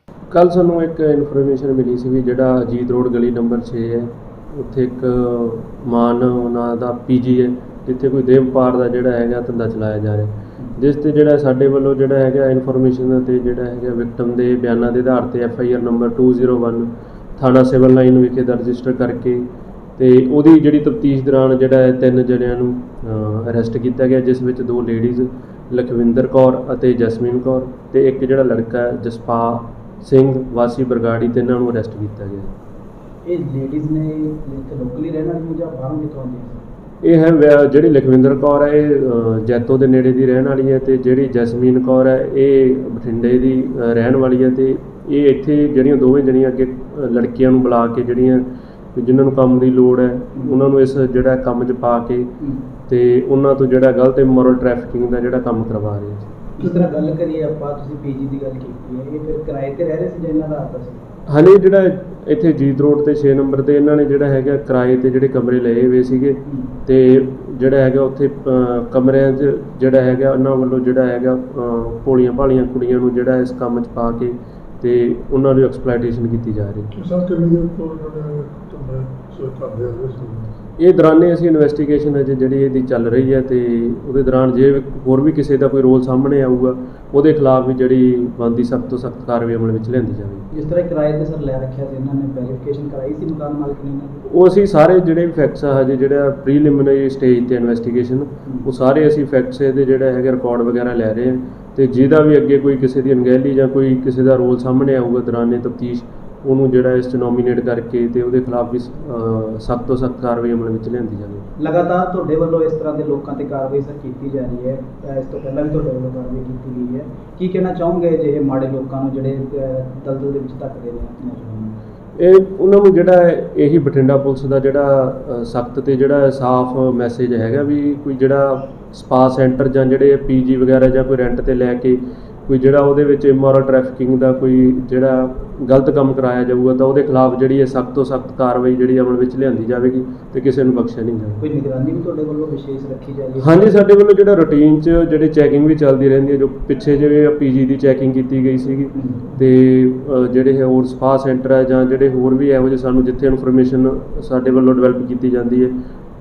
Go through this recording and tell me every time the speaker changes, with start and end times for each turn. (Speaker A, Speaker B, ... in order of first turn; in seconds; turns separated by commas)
Speaker A: 0.3-19.4, Speaker A: 20.0-32.5, Speaker B: 33.2-36.6, Speaker A: 37.0-52.3, Speaker B: 52.4-52.7, Speaker A: 52.9-56.3, Speaker B: 56.6-61.0, Speaker C: 56.6-56.9, Speaker A: 61.3-76.9, Speaker B: 66.5-66.7, Speaker C: 76.9-80.5, Speaker A: 80.8-90.5, Speaker B: 90.5-94.2, Speaker A: 94.3-111.5, Speaker B: 111.6-121.8, Speaker A: 122.2-141.5, Speaker B: 141.4-143.7, Speaker A: 143.4-155.7, Speaker B: 148.9-149.3